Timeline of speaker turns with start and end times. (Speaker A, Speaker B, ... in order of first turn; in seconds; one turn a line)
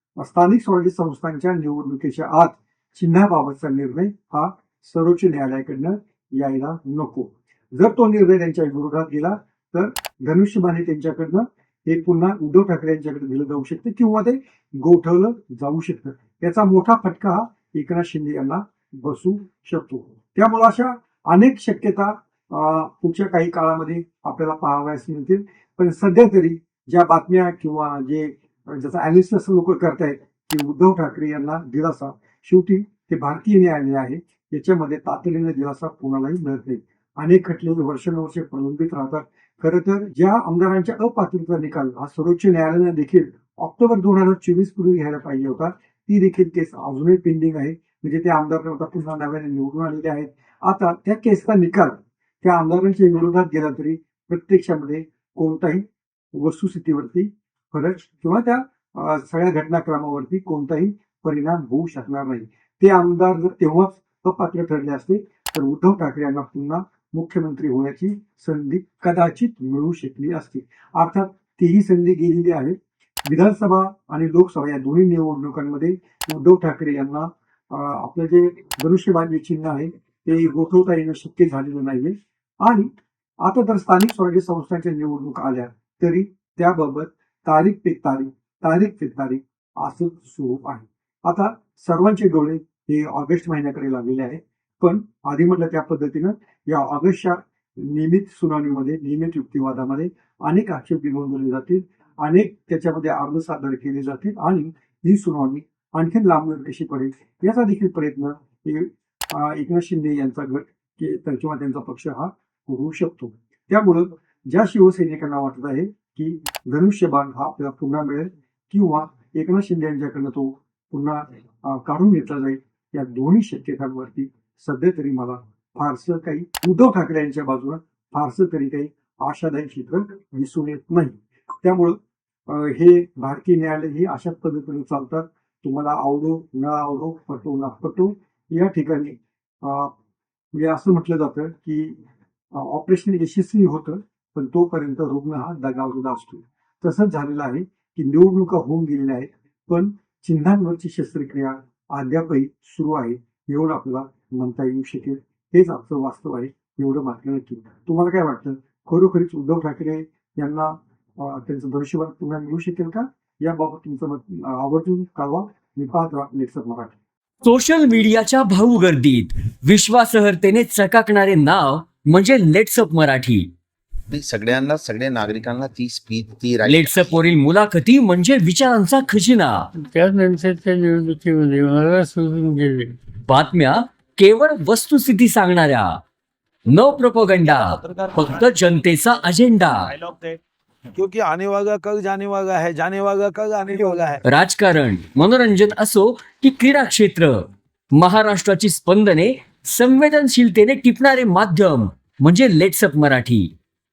Speaker A: 0.2-82.9
Speaker A: 83.4-132.0
Speaker A: 132.5-139.9
Speaker A: 140.6-142.0
Speaker A: 142.5-166.9
Speaker B: 167.4-173.5
Speaker C: 174.1-177.2
Speaker B: 176.7-179.7
Speaker D: 179.8-182.9
Speaker B: 183.3-186.0
Speaker B: 186.7-189.9
Speaker E: 187.5-188.3
Speaker E: 189.9-190.4
Speaker E: 191.0-194.2
Speaker B: 194.2-203.5